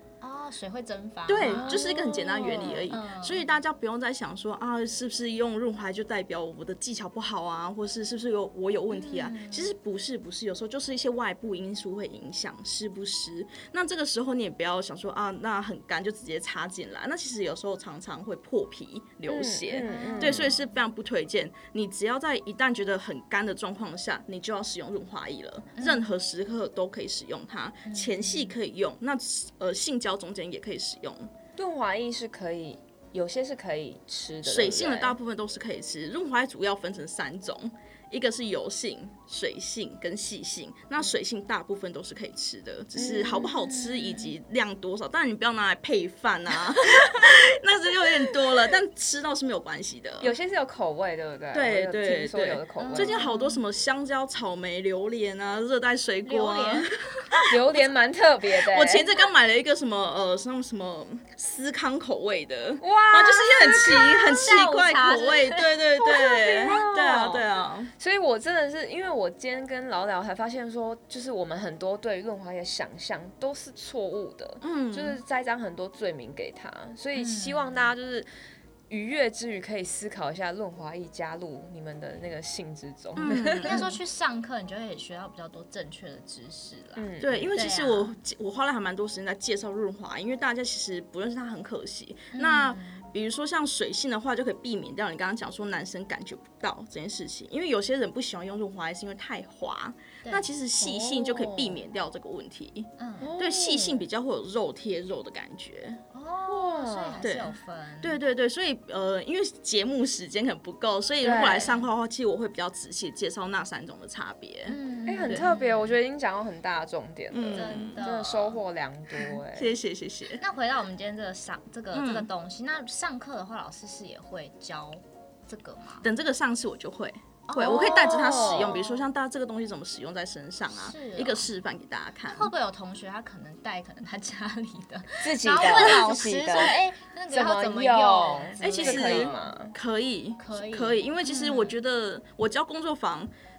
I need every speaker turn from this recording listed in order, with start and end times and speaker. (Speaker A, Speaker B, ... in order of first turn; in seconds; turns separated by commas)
Speaker A: 0.2-3.5, Speaker B: 1.3-31.3, Speaker C: 1.4-2.9, Speaker A: 8.9-9.7, Speaker C: 19.3-20.5, Speaker A: 19.7-20.6, Speaker A: 25.8-26.1, Speaker A: 27.9-28.5, Speaker C: 31.6-35.2, Speaker B: 34.4-50.3, Speaker C: 42.9-43.7, Speaker A: 43.8-44.3, Speaker C: 50.2-53.2, Speaker B: 51.5-57.8, Speaker A: 52.8-53.6, Speaker A: 56.2-57.2, Speaker C: 57.5-59.1, Speaker B: 58.6-67.9, Speaker C: 62.8-64.4, Speaker A: 64.2-65.7, Speaker C: 66.0-67.5, Speaker C: 68.0-78.3, Speaker B: 74.6-75.2, Speaker A: 77.2-77.9, Speaker C: 78.9-83.9, Speaker B: 83.2-83.9, Speaker A: 83.6-88.1, Speaker C: 87.0-87.5, Speaker B: 87.2-106.0, Speaker A: 92.3-93.1, Speaker C: 100.8-101.8, Speaker A: 103.0-103.3, Speaker C: 103.2-104.0, Speaker A: 106.1-108.2, Speaker C: 106.5-107.2, Speaker B: 107.2-115.5, Speaker C: 111.2-111.8, Speaker A: 111.2-111.8, Speaker A: 114.7-116.0, Speaker C: 115.1-119.8, Speaker B: 117.3-118.1, Speaker A: 117.5-118.6, Speaker B: 119.2-120.4, Speaker A: 120.4-126.0, Speaker B: 121.9-122.3, Speaker B: 126.0-132.5, Speaker A: 127.5-129.0, Speaker C: 127.5-128.8, Speaker A: 130.7-131.5, Speaker A: 132.3-139.5, Speaker C: 135.2-136.8, Speaker B: 135.6-136.1, Speaker C: 137.3-139.7, Speaker B: 138.6-143.3, Speaker A: 140.4-141.7